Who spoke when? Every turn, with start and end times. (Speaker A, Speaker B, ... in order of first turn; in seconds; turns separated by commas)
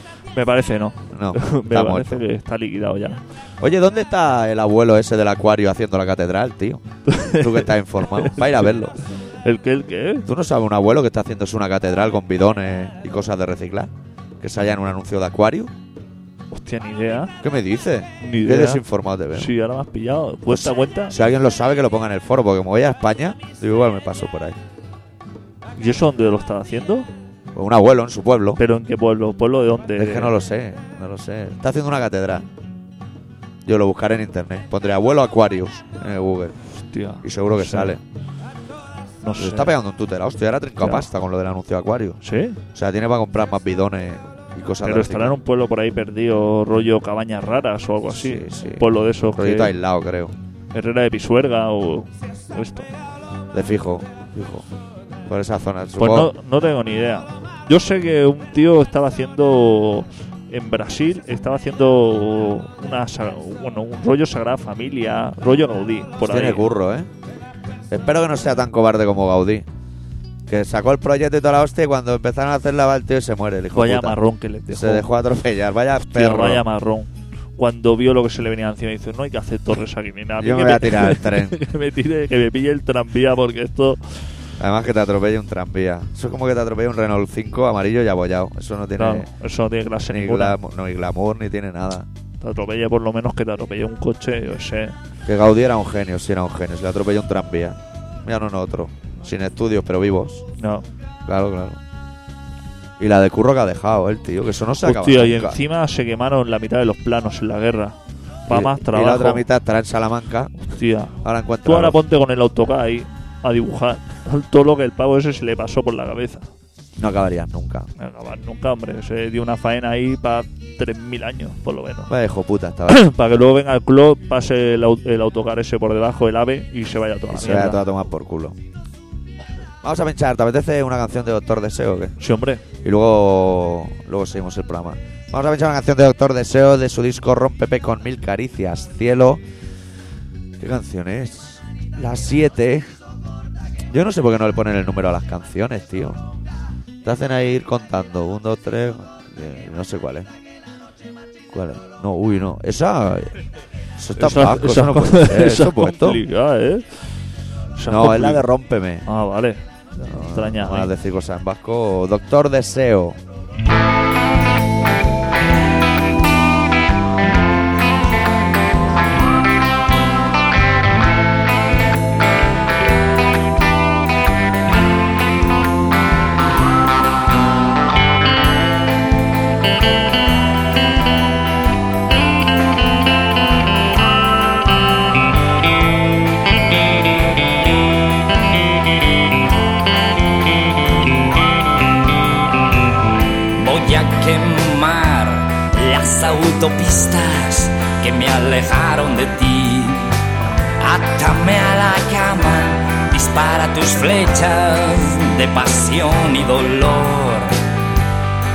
Speaker A: 0.3-3.2, Speaker B: 1.1-2.2, Speaker B: 3.6-8.9, Speaker A: 7.1-8.5, Speaker A: 9.4-10.3, Speaker B: 10.3-15.7, Speaker A: 16.5-17.4, Speaker B: 17.4-19.5, Speaker A: 18.2-21.1, Speaker B: 20.5-24.6, Speaker A: 25.8-27.1, Speaker B: 27.5-28.6, Speaker A: 28.6-30.3, Speaker B: 30.0-32.5, Speaker B: 33.6-36.5, Speaker A: 36.9-38.0, Speaker B: 37.2-38.0, Speaker A: 39.2-39.7, Speaker B: 39.4-42.2, Speaker A: 42.2-42.6, Speaker B: 42.7-45.4, Speaker A: 44.8-49.7, Speaker B: 48.1-50.4, Speaker A: 50.7-52.9, Speaker B: 53.5-54.7, Speaker B: 55.3-56.3, Speaker A: 56.0-66.7, Speaker B: 66.2-67.1, Speaker B: 67.9-69.7, Speaker B: 70.5-74.2, Speaker A: 73.7-75.1, Speaker B: 74.7-76.7, Speaker A: 76.1-84.0, Speaker B: 80.4-81.6, Speaker B: 84.6-89.3, Speaker A: 89.0-90.6, Speaker B: 90.1-92.1, Speaker A: 92.4-95.0, Speaker B: 95.3-100.4, Speaker A: 100.6-100.8, Speaker B: 101.3-101.8, Speaker B: 103.0-105.6, Speaker A: 104.8-108.0, Speaker A: 108.5-109.4, Speaker B: 108.5-110.5, Speaker A: 110.6-116.5, Speaker B: 111.2-112.0, Speaker B: 117.0-117.9, Speaker A: 118.0-122.1, Speaker B: 122.1-123.1, Speaker A: 122.9-127.8, Speaker B: 127.3-128.6, Speaker B: 129.8-132.2, Speaker A: 132.2-132.6, Speaker B: 132.8-139.4, Speaker B: 140.6-142.9, Speaker B: 143.9-146.2, Speaker B: 147.0-150.3, Speaker B: 151.5-153.3, Speaker B: 154.0-156.2, Speaker A: 154.2-157.1, Speaker A: 157.8-158.5, Speaker B: 157.9-159.1, Speaker A: 159.1-160.9, Speaker B: 160.1-163.2, Speaker C: 193.5-200.2, Speaker C: 200.8-207.6